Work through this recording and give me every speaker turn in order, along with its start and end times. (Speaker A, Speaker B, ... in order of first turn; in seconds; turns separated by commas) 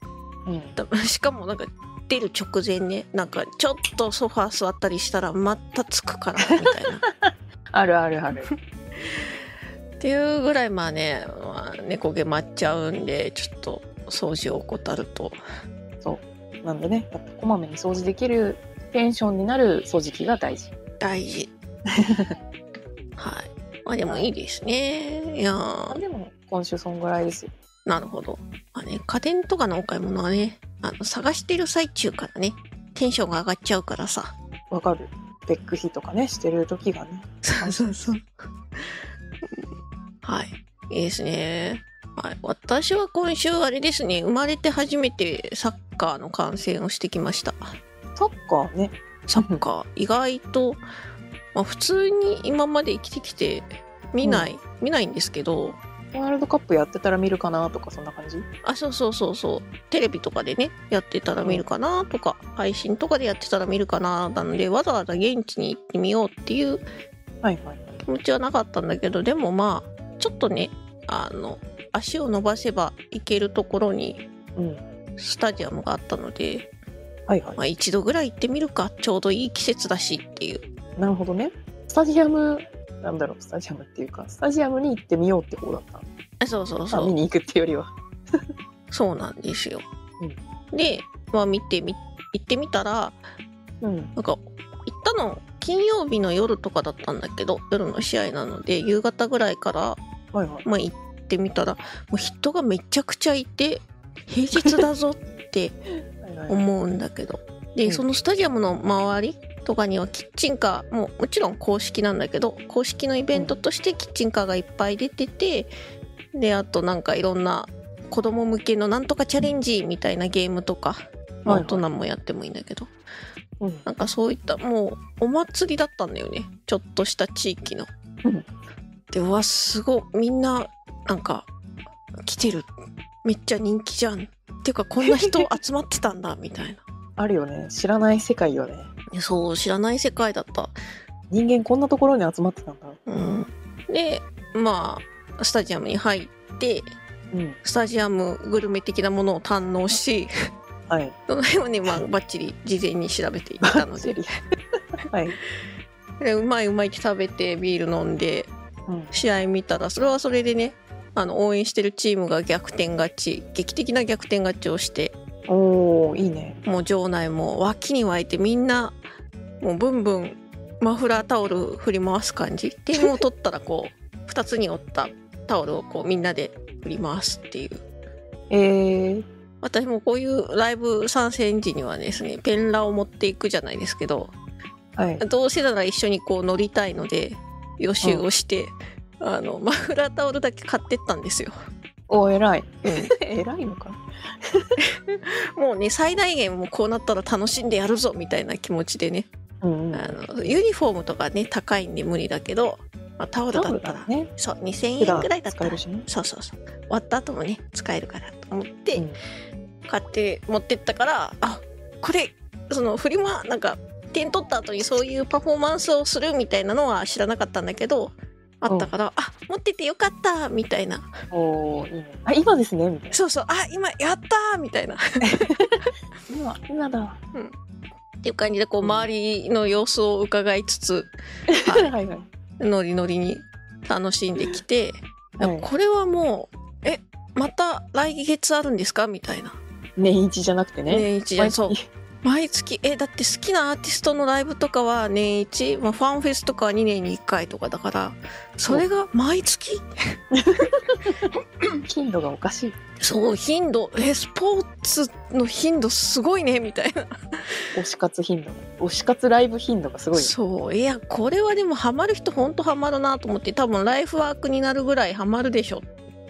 Speaker A: 0.5-0.8, Speaker B: 0.8-7.0, Speaker A: 6.4-8.5, Speaker B: 10.0-15.4, Speaker A: 16.0-20.7, Speaker B: 21.0-21.5, Speaker A: 22.0-22.3, Speaker B: 23.2-26.0, Speaker A: 24.0-24.3, Speaker A: 25.9-27.5, Speaker B: 27.9-34.3, Speaker A: 34.7-38.1, Speaker B: 37.4-39.7, Speaker B: 40.2-47.7, Speaker A: 48.1-49.6, Speaker B: 49.3-50.8, Speaker B: 51.5-55.8, Speaker A: 54.2-54.5, Speaker A: 56.1-58.5, Speaker B: 58.6-66.8, Speaker A: 61.4-61.7, Speaker A: 67.4-68.0, Speaker B: 68.0-74.2, Speaker A: 74.5-74.8, Speaker B: 75.2-76.7, Speaker A: 77.3-77.6, Speaker B: 77.6-80.6, Speaker A: 81.0-86.0, Speaker B: 86.4-87.1, Speaker A: 86.9-87.9, Speaker B: 88.9-89.8, Speaker B: 90.7-93.2, Speaker A: 93.8-94.1, Speaker B: 94.2-100.0, Speaker A: 100.3-100.7, Speaker B: 100.6-105.8, Speaker A: 106.2-106.7, Speaker B: 106.5-115.7, Speaker A: 113.3-113.6, Speaker B: 116.3-122.9, Speaker A: 121.5-121.8, Speaker A: 123.6-123.8, Speaker B: 123.8-127.9, Speaker B: 129.1-131.5, Speaker B: 132.2-132.7, Speaker B: 133.2-136.8, Speaker A: 135.0-135.5, Speaker A: 137.2-138.9, Speaker B: 139.1-140.8, Speaker A: 141.3-143.0, Speaker B: 143.1-146.9, Speaker A: 147.3-147.6, Speaker B: 147.6-150.3, Speaker A: 150.9-151.2, Speaker B: 151.3-154.2, Speaker A: 153.6-154.3, Speaker A: 155.0-155.4, Speaker B: 156.2-158.5, Speaker A: 158.9-159.2, Speaker B: 159.1-165.1, Speaker A: 165.5-166.6, Speaker B: 166.6-169.0, Speaker B: 169.6-177.8, Speaker A: 178.5-179.2, Speaker B: 179.6-184.3, Speaker A: 184.9-185.2, Speaker B: 185.2-191.5, Speaker A: 192.1-194.0, Speaker B: 192.8-193.1, Speaker B: 195.1-199.3, Speaker A: 199.6-200.6, Speaker B: 199.9-209.1, Speaker A: 203.5-204.3, Speaker A: 205.0-206.1, Speaker B: 209.9-221.1, Speaker A: 221.3-223.2, Speaker B: 223.1-225.4, Speaker A: 225.2-227.2, Speaker B: 228.2-231.1, Speaker A: 228.8-229.1, Speaker A: 231.5-232.3, Speaker B: 231.6-231.9, Speaker B: 232.6-239.6, Speaker A: 235.4-235.7, Speaker A: 240.0-241.8, Speaker B: 240.9-249.9, Speaker A: 250.3-251.3, Speaker A: 251.9-252.8, Speaker B: 253.0-257.5, Speaker A: 257.7-260.3, Speaker B: 260.1-265.9